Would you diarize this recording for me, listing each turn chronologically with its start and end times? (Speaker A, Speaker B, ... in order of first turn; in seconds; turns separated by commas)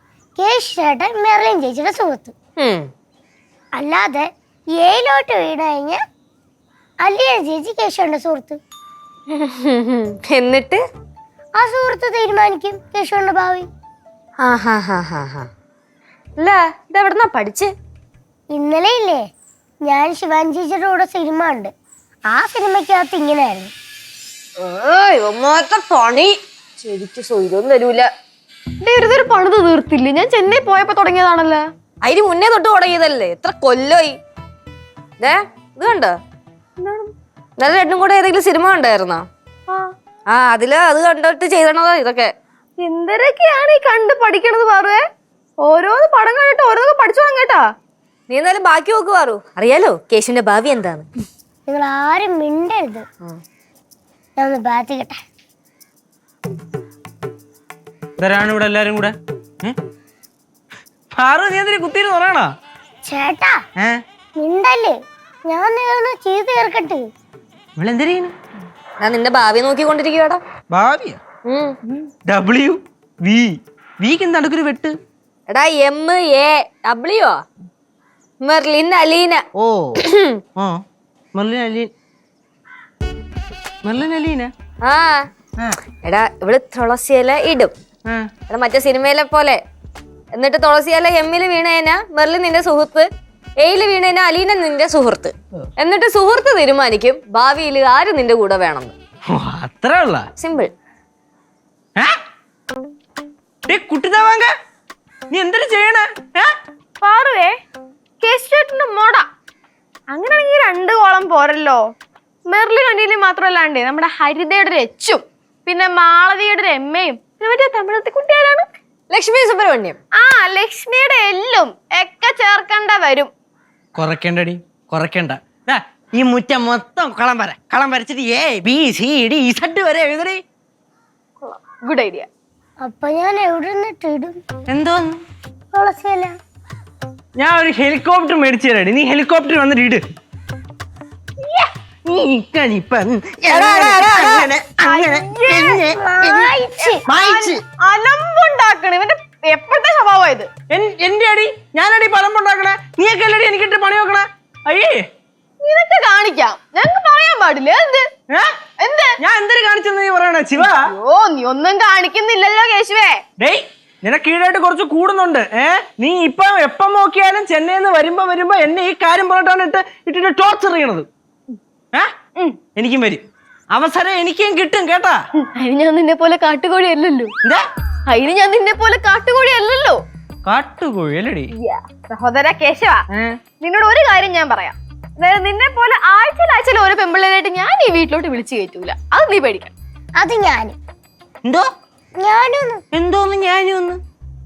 Speaker A: 0.4-2.3, Speaker B: 2.6-2.9, Speaker A: 3.8-6.0, Speaker A: 7.0-8.6, Speaker B: 9.3-10.8, Speaker A: 11.6-13.7, Speaker B: 14.4-15.5, Speaker B: 16.4-17.7, Speaker A: 18.5-19.3, Speaker A: 19.9-21.7, Speaker A: 22.3-23.7, Speaker B: 24.6-28.1, Speaker C: 28.8-31.6, Speaker B: 32.0-34.2, Speaker B: 35.2-36.2, Speaker C: 36.8-37.1, Speaker B: 37.6-39.3, Speaker B: 40.3-42.3, Speaker C: 42.8-45.0, Speaker C: 45.6-47.6, Speaker B: 48.3-51.1, Speaker A: 51.7-53.1, Speaker A: 54.4-55.2, Speaker D: 58.2-59.8, Speaker D: 61.1-62.5, Speaker A: 63.0-63.6, Speaker A: 64.4-65.0, Speaker A: 65.5-67.0, Speaker D: 67.8-68.3, Speaker B: 69.0-70.4, Speaker D: 70.7-71.2, Speaker B: 71.5-71.8, Speaker D: 72.3-75.0, Speaker B: 75.5-77.4, Speaker B: 78.4-79.4, Speaker D: 79.6-80.0, Speaker B: 80.0-80.4, Speaker D: 81.3-81.9, Speaker D: 83.8-84.5, Speaker B: 84.8-85.2, Speaker B: 86.0-87.7, Speaker B: 88.5-89.6, Speaker B: 90.3-93.1, Speaker B: 93.6-98.9, Speaker D: 99.3-100.2, Speaker B: 100.4-100.7, Speaker D: 103.7-104.5, Speaker D: 105.3-106.5, Speaker C: 107.0-107.5, Speaker C: 108.2-109.3, Speaker C: 110.1-111.8, Speaker C: 112.5-118.7, Speaker B: 119.1-120.0, Speaker C: 120.2-123.3, Speaker D: 124.0-130.4, Speaker C: 131.4-132.3, Speaker A: 132.8-134.4, Speaker D: 134.7-135.2, Speaker A: 135.7-136.4, Speaker D: 137.4-140.0, Speaker D: 142.1-146.6, Speaker A: 143.5-145.1, Speaker C: 145.1-145.8, Speaker A: 145.7-147.0, Speaker C: 146.8-150.5, Speaker D: 147.1-147.6, Speaker D: 150.7-155.0, Speaker C: 155.6-158.1, Speaker C: 158.8-159.1, Speaker D: 159.2-160.8, Speaker C: 160.6-163.2, Speaker D: 163.4-171.1, Speaker D: 172.8-175.2, Speaker C: 175.5-177.3, Speaker C: 178.1-180.0, Speaker D: 180.4-181.5, Speaker C: 181.6-183.0, Speaker D: 183.1-183.4, Speaker C: 183.6-189.7, Speaker A: 190.2-190.8, Speaker A: 192.2-192.8, Speaker D: 192.9-194.0